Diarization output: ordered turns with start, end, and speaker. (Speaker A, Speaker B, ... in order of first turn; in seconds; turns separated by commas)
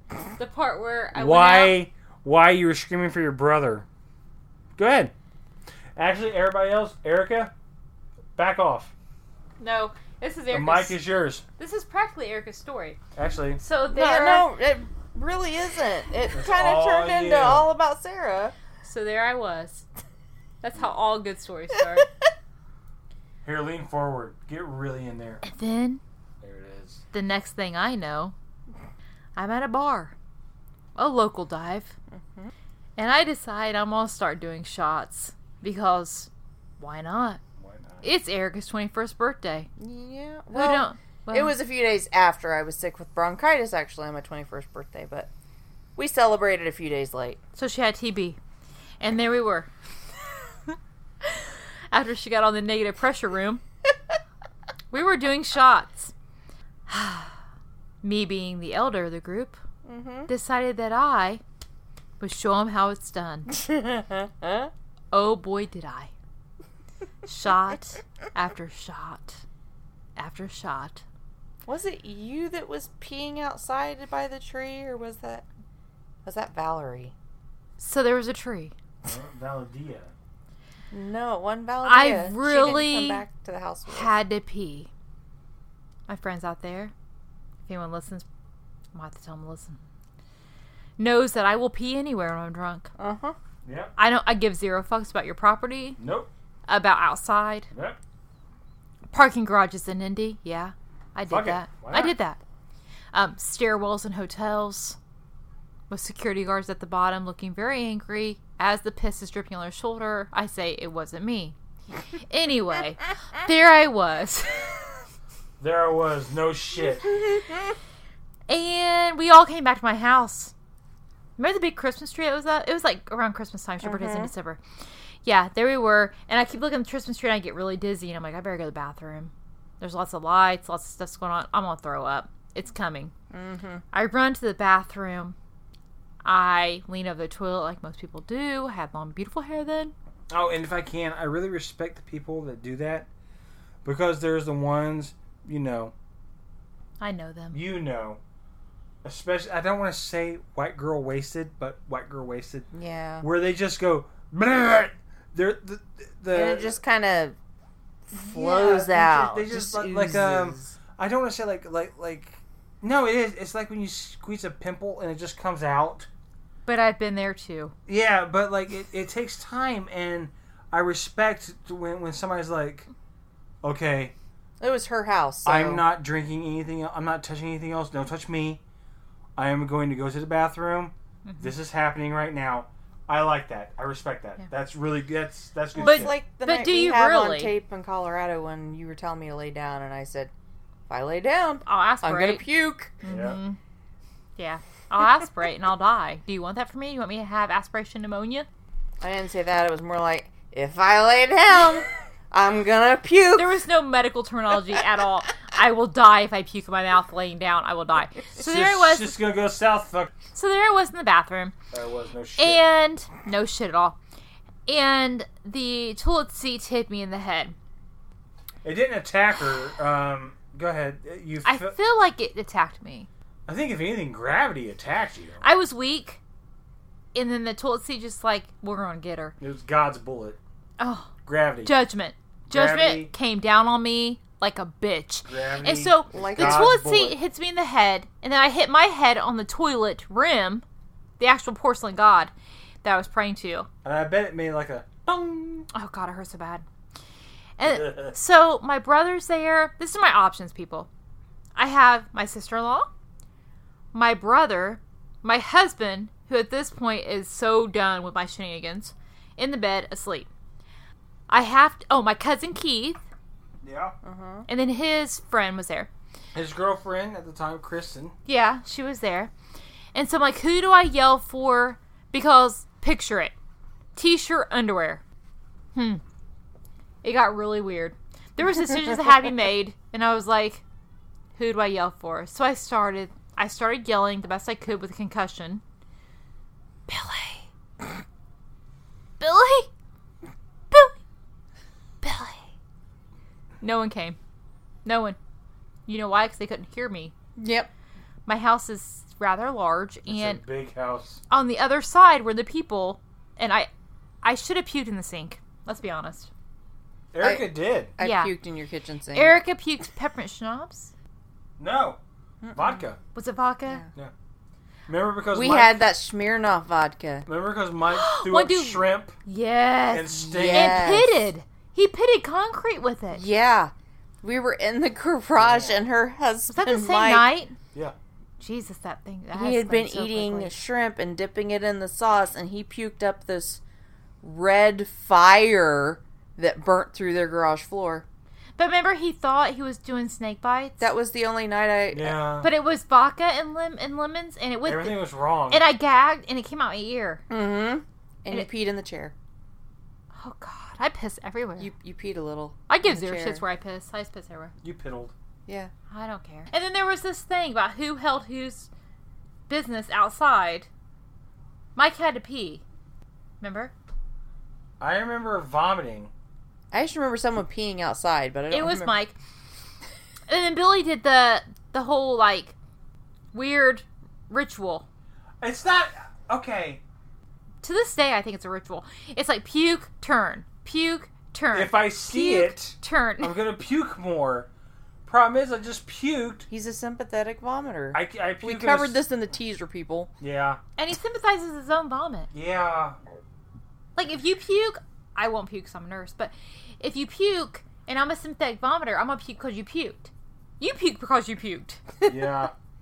Speaker A: 0.3-1.8, Speaker B: 1.1-3.9, Speaker B: 4.8-5.1, Speaker B: 6.0-7.5, Speaker B: 8.4-8.9, Speaker A: 9.6-11.0, Speaker B: 10.5-11.4, Speaker A: 11.6-13.0, Speaker B: 13.2-13.6, Speaker A: 13.6-14.5, Speaker C: 13.9-18.5, Speaker B: 16.3-17.7, Speaker A: 18.8-19.8, Speaker A: 20.6-22.1, Speaker B: 23.4-25.4, Speaker A: 25.4-26.0, Speaker B: 26.4-27.0, Speaker A: 27.1-28.3, Speaker A: 29.4-30.1, Speaker A: 30.9-31.9, Speaker C: 32.1-32.5, Speaker A: 33.0-37.4, Speaker B: 37.6-38.1, Speaker A: 38.0-39.7, Speaker C: 39.8-45.3, Speaker A: 40.5-41.5, Speaker C: 46.0-47.4, Speaker A: 47.5-48.4, Speaker A: 49.0-49.7, Speaker A: 50.7-53.6, Speaker A: 54.9-56.1, Speaker A: 56.9-57.4, Speaker A: 58.0-59.6, Speaker C: 59.8-60.3, Speaker A: 60.3-61.4, Speaker A: 62.2-63.5, Speaker C: 63.5-64.7, Speaker A: 65.1-66.1, Speaker A: 67.2-69.4, Speaker A: 70.2-71.0, Speaker C: 71.7-75.4, Speaker C: 76.2-77.1, Speaker A: 77.8-78.7, Speaker B: 79.0-80.1, Speaker C: 80.9-84.1, Speaker A: 81.8-83.2, Speaker A: 83.9-84.9, Speaker A: 86.1-86.9, Speaker A: 87.7-88.2, Speaker A: 88.9-89.8, Speaker A: 91.0-92.9, Speaker C: 93.0-93.3, Speaker B: 93.6-93.9, Speaker A: 94.0-96.0, Speaker B: 96.0-96.3, Speaker A: 96.7-97.7, Speaker B: 97.7-98.0, Speaker A: 99.1-102.4, Speaker B: 101.3-102.2, Speaker A: 103.1-105.0, Speaker A: 105.9-111.5, Speaker A: 112.2-115.0, Speaker B: 115.6-117.1, Speaker C: 117.1-117.5, Speaker A: 118.5-120.5, Speaker A: 121.4-124.6, Speaker C: 123.8-124.3, Speaker A: 125.2-133.1, Speaker C: 133.3-133.8, Speaker A: 133.9-135.3, Speaker A: 136.2-139.9, Speaker B: 140.3-143.1, Speaker B: 143.8-145.9, Speaker A: 147.0-147.6, Speaker B: 147.5-148.2, Speaker B: 149.0-152.7, Speaker C: 152.7-153.3, Speaker B: 153.2-156.8, Speaker C: 156.3-157.3, Speaker C: 158.1-160.8, Speaker B: 158.3-166.1, Speaker A: 166.7-167.7, Speaker B: 167.9-172.9, Speaker B: 173.6-174.1, Speaker C: 174.6-175.8, Speaker B: 175.4-178.6, Speaker B: 179.4-186.2, Speaker A: 181.2-181.5, Speaker C: 185.7-190.3, Speaker A: 185.8-187.5, Speaker C: 190.9-193.0, Speaker A: 191.7-192.4, Speaker A: 193.0-193.6, Speaker B: 193.1-193.4, Speaker A: 194.4-198.5, Speaker C: 199.0-203.5, Speaker A: 203.3-209.2, Speaker B: 208.4-210.1, Speaker A: 210.3-211.5, Speaker B: 211.7-212.6, Speaker A: 212.4-214.0, Speaker A: 214.7-217.6, Speaker B: 218.6-221.7, Speaker A: 221.4-223.1, Speaker B: 223.5-225.4, Speaker A: 225.4-226.2, Speaker A: 227.1-229.3, Speaker B: 229.4-230.4, Speaker A: 230.8-231.1, Speaker B: 231.2-231.8, Speaker A: 231.6-240.6, Speaker B: 232.5-233.1, Speaker B: 235.2-237.2, Speaker C: 236.1-236.8, Speaker A: 241.2-242.3, Speaker A: 242.8-243.7, Speaker B: 243.8-245.7, Speaker A: 245.7-246.6, Speaker A: 247.6-250.9, Speaker B: 247.6-248.2, Speaker A: 251.6-252.9, Speaker A: 253.9-260.3, Speaker A: 261.3-263.0, Speaker B: 263.6-263.9, Speaker C: 264.0-264.5, Speaker A: 264.5-265.9, Speaker B: 266.3-268.1, Speaker A: 268.2-269.3, Speaker A: 269.9-273.3, Speaker A: 273.9-275.0, Speaker A: 275.7-276.0, Speaker A: 277.0-280.6, Speaker A: 281.3-285.6, Speaker A: 286.9-287.4, Speaker A: 289.2-289.7, Speaker A: 290.7-290.9, Speaker A: 292.0-292.4, Speaker A: 293.6-294.2, Speaker A: 294.8-295.2, Speaker A: 295.9-297.1, Speaker C: 297.4-297.7, Speaker A: 298.3-300.4, Speaker B: 300.1-301.2, Speaker A: 301.3-303.7, Speaker A: 304.2-306.3, Speaker B: 307.1-307.9, Speaker C: 307.2-309.4, Speaker A: 308.0-308.3, Speaker A: 309.1-310.9, Speaker B: 311.6-312.0, Speaker C: 312.4-312.8, Speaker B: 312.5-313.0, Speaker A: 313.1-313.8, Speaker B: 314.9-315.8, Speaker C: 315.3-317.3, Speaker B: 317.2-319.1, Speaker A: 317.9-323.2, Speaker B: 319.9-321.0, Speaker C: 320.1-321.3, Speaker C: 323.1-323.7, Speaker C: 324.2-327.3, Speaker B: 325.4-325.9, Speaker A: 326.5-327.6, Speaker A: 328.4-330.6, Speaker C: 329.3-333.6, Speaker C: 334.2-338.0, Speaker A: 338.6-340.9, Speaker C: 340.8-342.2, Speaker B: 341.9-342.5, Speaker A: 342.4-347.2, Speaker B: 344.6-345.6, Speaker C: 347.3-349.1, Speaker A: 350.1-351.7, Speaker C: 351.6-353.4, Speaker A: 352.7-354.5, Speaker B: 354.6-355.1, Speaker A: 355.9-358.7, Speaker A: 359.5-360.7, Speaker A: 361.8-362.6, Speaker A: 363.4-363.7, Speaker B: 364.8-366.1, Speaker C: 366.7-368.9, Speaker A: 368.5-369.1, Speaker A: 370.3-372.5, Speaker A: 373.3-374.9, Speaker B: 375.4-376.8, Speaker A: 377.6-383.4, Speaker B: 381.5-384.5, Speaker B: 385.1-386.4, Speaker C: 386.5-390.1, Speaker B: 387.9-389.0, Speaker B: 390.2-390.6, Speaker A: 390.8-392.3, Speaker B: 392.3-393.0, Speaker A: 393.9-402.0, Speaker B: 402.0-402.5